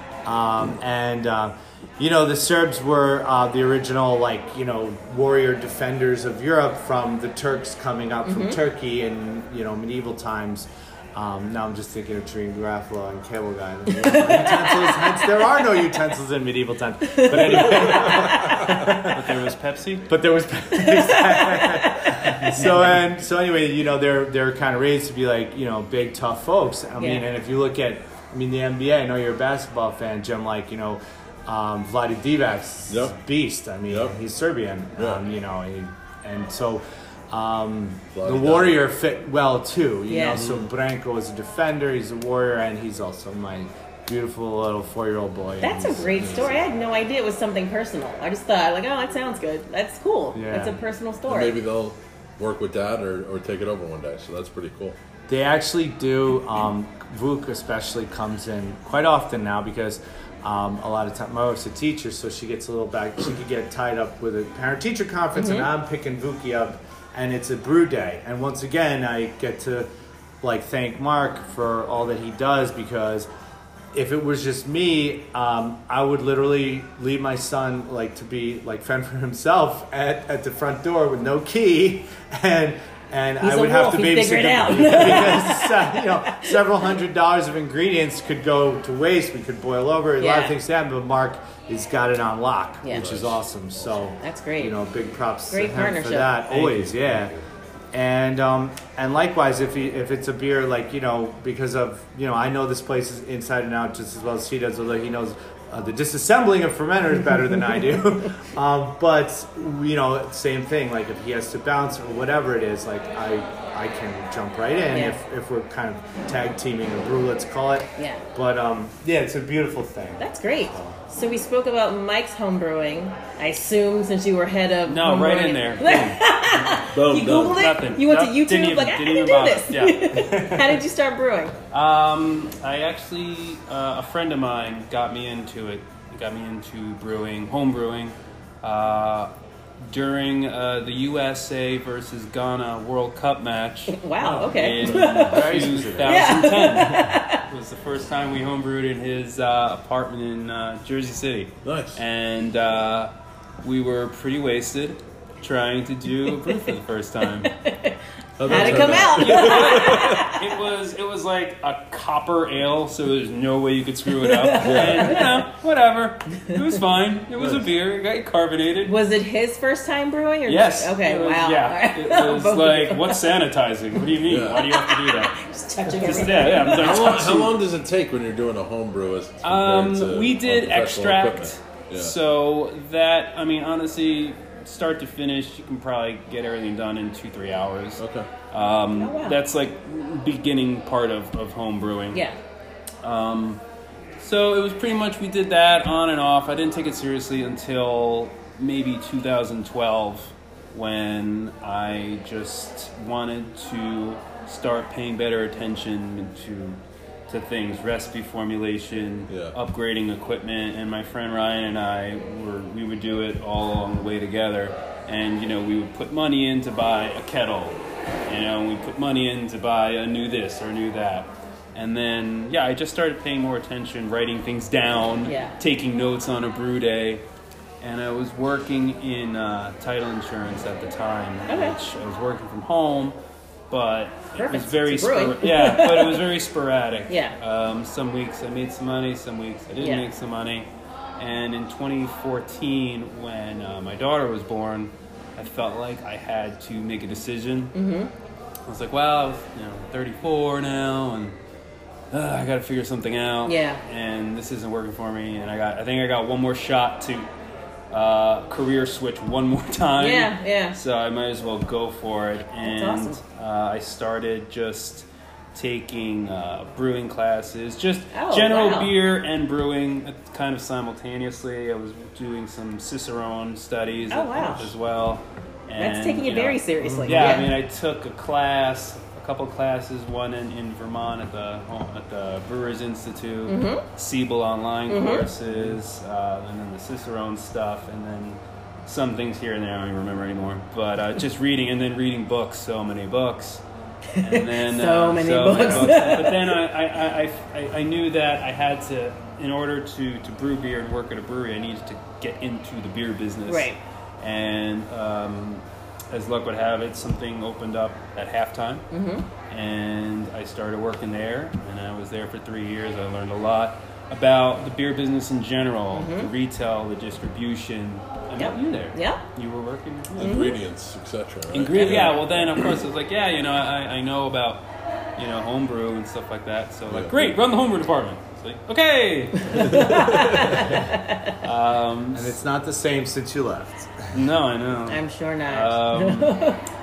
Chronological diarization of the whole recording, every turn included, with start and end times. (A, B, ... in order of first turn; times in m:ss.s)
0:00.2-0:19.4 A
0:08.2-0:08.6 B
0:13.9-0:15.6 B
0:17.0-0:18.5 B
0:17.6-0:18.9 C
0:18.9-0:20.1 D
0:20.1-0:46.6 A
0:20.8-0:22.6 B
0:27.0-0:27.3 B
0:32.9-0:33.2 C
0:33.9-0:34.2 C
0:35.0-0:35.2 C
0:38.1-0:38.8 C
0:40.1-0:40.4 B
0:40.3-0:40.6 C
0:45.6-0:51.6 B
0:46.2-0:46.6 C
0:50.3-0:50.8 A
0:51.3-0:55.0 C
0:55.3-1:09.9 A
1:05.4-1:05.7 B
1:10.4-1:13.3 A
1:13.9-1:37.3 A
1:23.4-1:26.6 B
1:30.2-1:30.6 B
1:32.9-1:34.0 C
1:34.2-1:34.7 B
1:35.5-1:36.4 B
1:36.7-1:37.3 C
1:37.9-2:01.0 A
1:54.9-1:55.2 B
1:58.0-1:58.2 B
2:00.2-2:11.6 B
2:04.9-2:06.8 D
2:06.9-2:07.7 C
2:07.5-2:10.2 D
2:10.1-2:10.8 A
2:11.7-2:19.3 D
2:19.9-2:37.5 D
2:23.9-2:25.5 B
2:24.2-2:26.5 A
2:26.0-2:27.4 B
2:31.6-2:32.0 C
2:36.4-2:36.7 B
2:37.4-2:40.5 B
2:38.4-2:40.4 C
2:38.4-2:49.0 D
2:44.2-2:45.4 B
2:44.6-2:45.3 C
2:47.4-2:47.7 C
2:48.8-2:53.3 B
2:50.5-2:55.4 D
2:54.2-2:54.6 C
2:54.5-2:56.9 B
2:55.9-2:57.6 D
2:56.6-3:02.2 C
2:59.4-3:12.2 D
3:08.0-3:08.3 C
3:08.9-3:09.4 B
3:13.0-3:13.6 D
3:14.2-3:47.2 D
3:29.3-3:29.6 C
3:45.3-3:45.6 B
3:47.8-3:53.2 D
3:51.5-3:51.8 B
3:53.7-4:07.8 D
3:54.4-3:56.3 B
3:57.1-3:57.4 B
4:07.7-4:08.1 B
4:08.7-4:11.4 D
4:12.1-4:17.3 D
4:13.4-4:13.8 B
4:17.9-4:53.6 D
4:20.0-4:20.8 B
4:22.6-4:23.2 B
4:28.1-4:28.9 B
4:34.1-4:34.7 B
4:35.8-4:37.6 B
4:36.8-4:37.2 C
4:43.5-4:43.8 B
4:44.9-4:45.3 B
4:54.1-4:56.5 B
4:54.2-5:08.9 D
5:03.5-5:03.8 B
5:08.9-5:09.3 B
5:09.5-5:20.5 D
5:15.9-5:16.3 B
5:18.4-5:19.2 B
5:20.2-5:22.8 C
5:20.2-5:20.6 B
5:21.5-5:30.6 D
5:26.9-5:27.3 C
5:29.5-5:31.4 B
5:29.6-5:30.8 C
5:30.6-5:30.9 A
5:31.4-5:32.4 D
5:32.1-5:34.1 A
5:34.1-5:36.5 D
5:34.9-5:36.6 B